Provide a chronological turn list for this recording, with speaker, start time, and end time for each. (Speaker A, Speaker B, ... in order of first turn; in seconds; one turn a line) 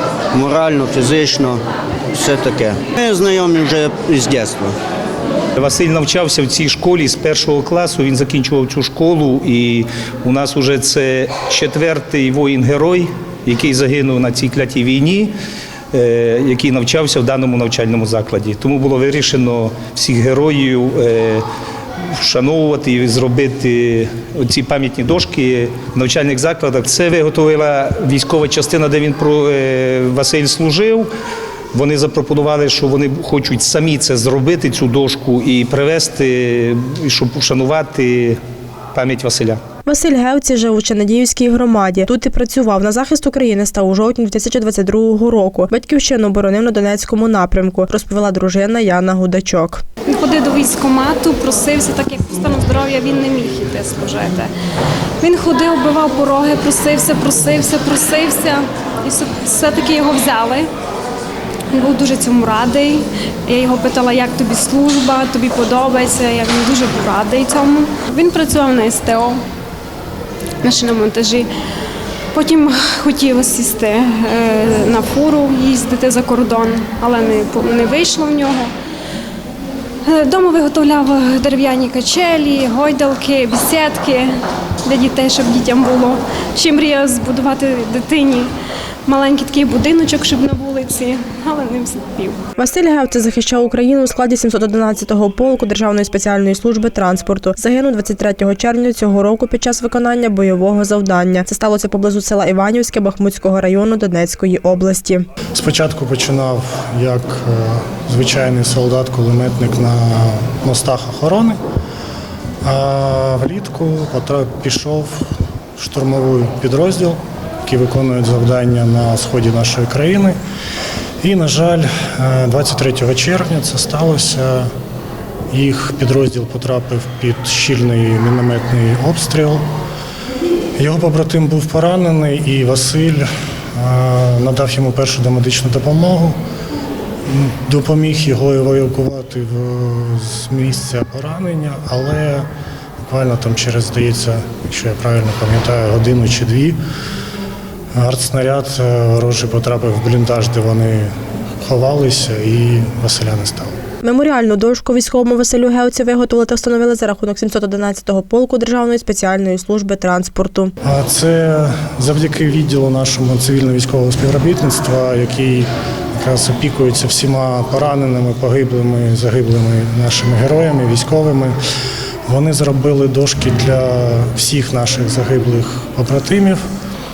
Speaker A: 0.3-1.6
Speaker A: 2.1-4.7
Speaker B: 5.6-15.3
Speaker B: 15.9-21.4
Speaker B: 22.1-31.1
Speaker B: 31.7-38.4
Speaker B: 38.9-39.6
Speaker C: 39.9-49.8
Speaker D: 50.0-54.5
Speaker D: 55.2-60.7
Speaker D: 61.7-69.4
Speaker D: 70.6-71.5
Speaker D: 72.3-78.7
Speaker D: 80.0-84.3
Speaker D: 84.8-88.5
Speaker D: 89.0-92.4
Speaker C: 92.6-105.3
Speaker E: 105.5-111.6
Speaker E: 112.6-120.4
Speaker E: 121.2-124.7
Speaker E: 125.5-129.6
Speaker E: 130.8-136.4
Speaker E: 137.2-142.5
Speaker E: 143.1-146.8
Speaker E: 147.9-153.8
Speaker C: 154.0-160.7
Speaker E: 160.8-171.5
Speaker E: 172.3-176.6